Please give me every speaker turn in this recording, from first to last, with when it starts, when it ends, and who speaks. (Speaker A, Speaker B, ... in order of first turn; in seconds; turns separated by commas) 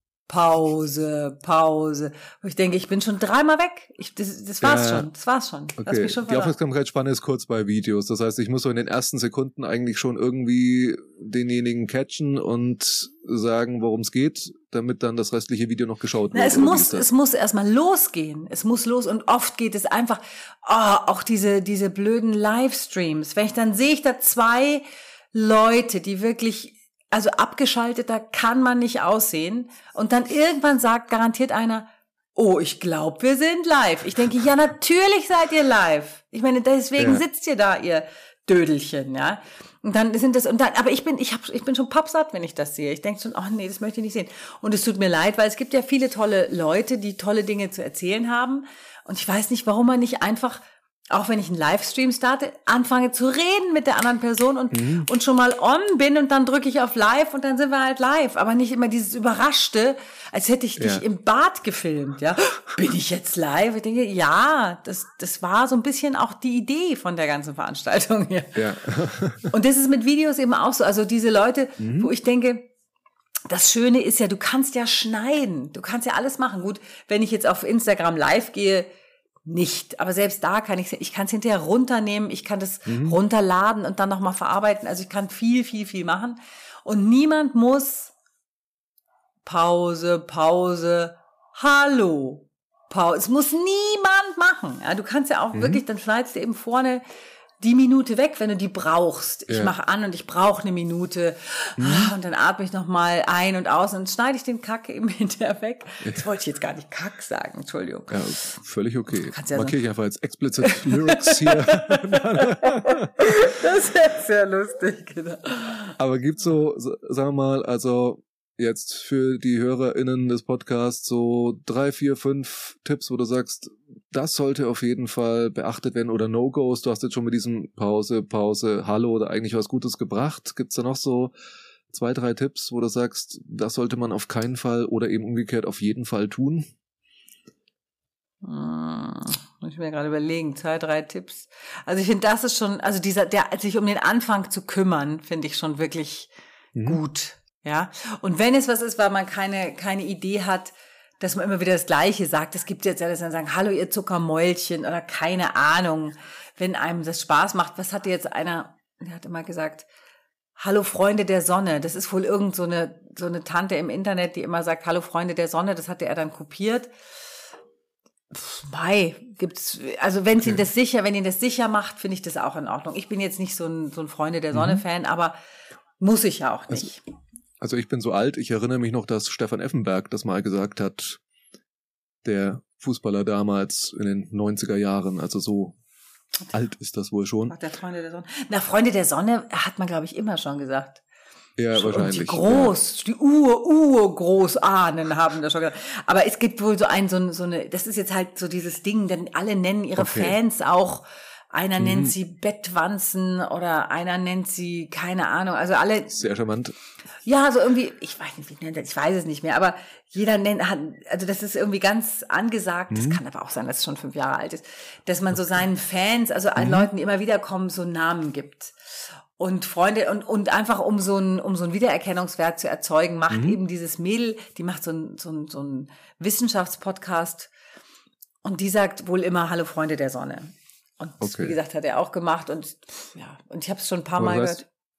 Speaker A: 0.3-6.5, Speaker B: 4.6-5.1, Speaker B: 5.8-17.1, Speaker A: 16.3-68.6, Speaker B: 37.0-37.2, Speaker B: 54.7-55.1, Speaker B: 60.8-61.0, Speaker B: 68.5-69.5, Speaker A: 69.5-72.7, Speaker B: 71.8-72.1, Speaker A: 73.5-78.9, Speaker A: 79.5-88.1, Speaker B: 82.9-83.2, Speaker A: 89.5-97.0, Speaker B: 95.5-95.8, Speaker A: 97.6-108.6, Speaker B: 99.5-99.7, Speaker B: 101.8-102.1, Speaker B: 108.1-113.3, Speaker A: 109.1-109.8, Speaker A: 110.6-116.0, Speaker B: 116.0-131.3, Speaker B: 131.9-136.7, Speaker A: 138.4-146.3, Speaker B: 146.8-147.0, Speaker A: 146.8-159.9, Speaker A: 160.6-166.9, Speaker A: 168.3-175.4, Speaker B: 174.5-174.8, Speaker A: 176.0-177.0, Speaker B: 177.6-181.2, Speaker B: 182.2-185.8, Speaker B: 186.5-187.6, Speaker A: 187.5-191.0, Speaker B: 191.6-192.7, Speaker A: 191.7-206.2, Speaker B: 200.0-200.4, Speaker B: 201.8-202.1, Speaker B: 206.1-206.8, Speaker A: 207.3-227.5, Speaker B: 212.9-213.2, Speaker B: 216.6-216.9, Speaker B: 223.3-223.6, Speaker A: 228.4-234.7, Speaker B: 231.2-231.6, Speaker B: 234.2-234.6